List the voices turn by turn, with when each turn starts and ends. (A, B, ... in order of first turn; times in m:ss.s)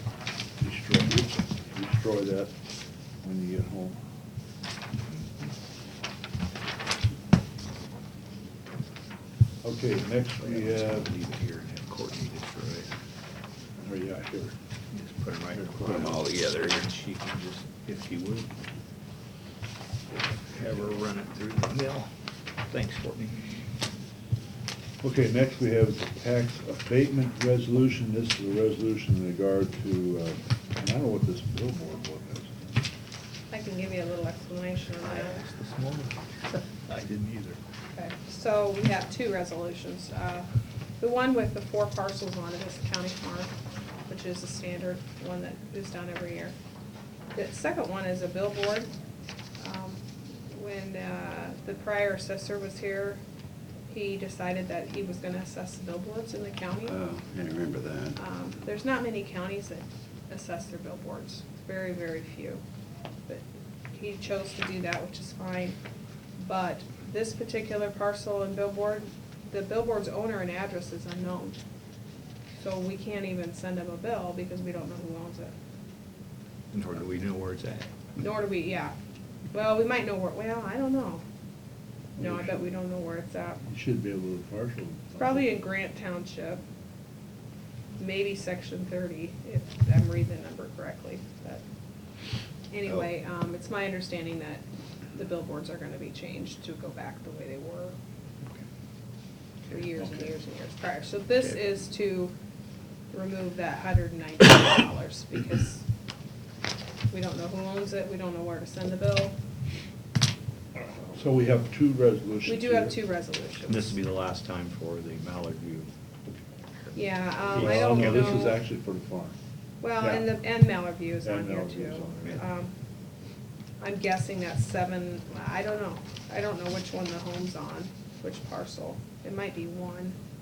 0:00.6-0:02.5 A
0:03.2-0:04.0 A
0:09.6-0:11.1 A
0:10.4-0:13.0 B
0:13.8-0:14.6 A
0:14.9-0:18.5 B
0:15.5-0:16.1 A
0:15.8-0:16.6 C
0:20.1-0:22.1 B
0:22.7-0:23.4 B
0:25.0-0:32.8 A
0:33.5-0:35.5 D
0:35.0-0:37.6 B
0:37.9-0:40.5 D
0:41.0-0:43.5 D
0:44.1-0:46.5 D
0:47.4-0:48.9 D
0:49.6-0:53.2 D
0:53.9-0:57.0 D
0:56.9-0:58.2 C
0:58.2-1:02.6 D
1:03.3-1:05.8 D
1:06.4-1:11.6 D
1:12.6-1:15.5 D
1:16.7-1:17.9 B
1:18.2-1:19.0 D
1:19.5-1:21.2 D
1:22.2-1:22.7 A
1:22.2-1:23.6 D
1:23.6-1:25.5 A
1:25.2-1:26.6 D
1:28.0-1:31.6 D
1:32.7-1:34.6 D
1:35.2-1:38.0 D
1:39.7-1:42.3 D
1:43.1-1:45.8 D
1:47.1-1:49.4 D
1:51.1-1:53.0 A
1:52.5-1:54.0 D
1:53.7-1:55.9 B
1:57.0-1:58.6 D
1:57.5-1:58.6 B
1:57.5-1:59.4 A
1:59.8-2:02.7 D
2:00.0-2:00.2 B
2:01.2-2:02.4 A
2:03.8-2:10.2 D